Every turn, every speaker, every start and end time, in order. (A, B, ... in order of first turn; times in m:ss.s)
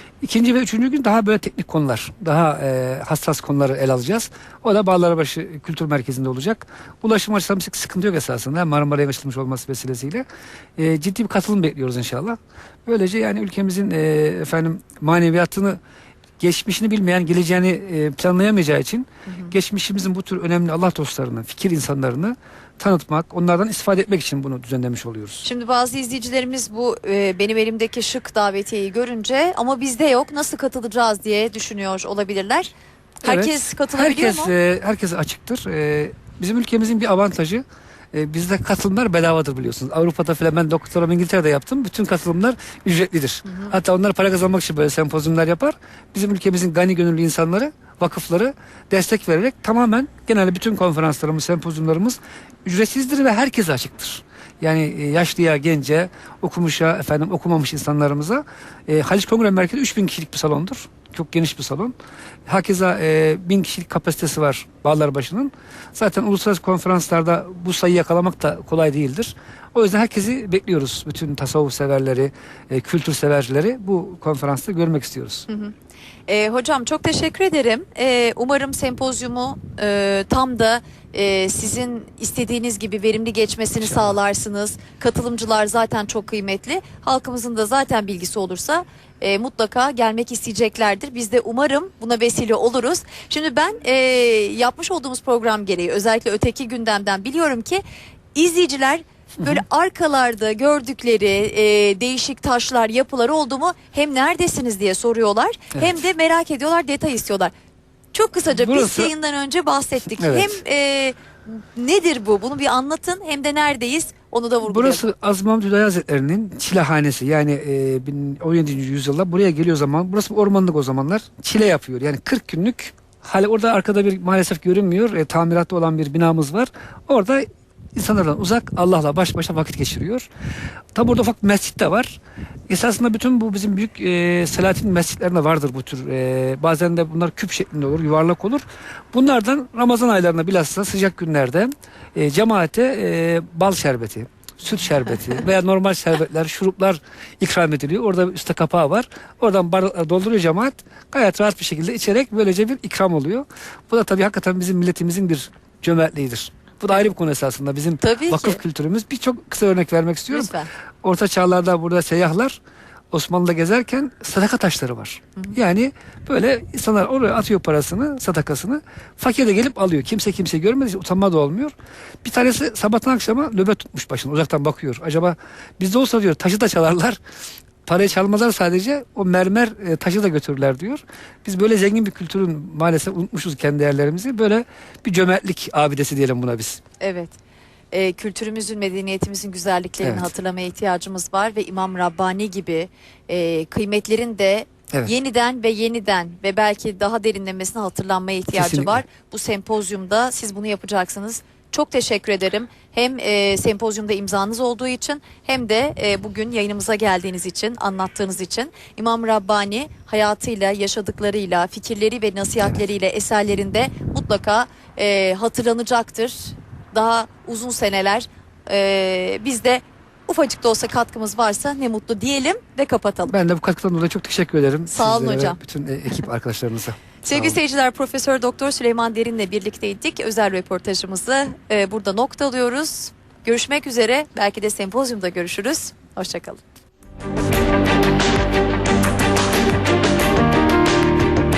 0:00.2-0:10.2 A
0:10.8-0:15.8 A
0:16.4-0:25.4 A
0:19.3-0:19.6 B
0:25.4-0:32.7 B
0:33.2-0:34.5 B
0:33.2-1:01.9 A
1:02.5-1:15.4 A
1:15.5-1:15.7 B
1:16.3-1:37.8 B
1:23.9-1:24.1 A
1:38.3-1:47.5 B
1:48.1-1:55.0 B
1:48.5-1:49.1 A
1:50.2-1:50.6 A
1:54.6-2:10.3 A
2:10.9-2:42.6 A
2:38.0-2:38.6 B
2:40.3-2:40.7 B
2:43.1-2:57.2 A
2:57.8-3:06.8 A
3:07.0-3:07.3 B
3:07.9-3:43.4 B
3:10.0-3:10.3 A
3:18.6-3:19.0 A
3:43.3-3:47.6 A
3:44.9-3:45.6 B
3:47.2-3:56.6 B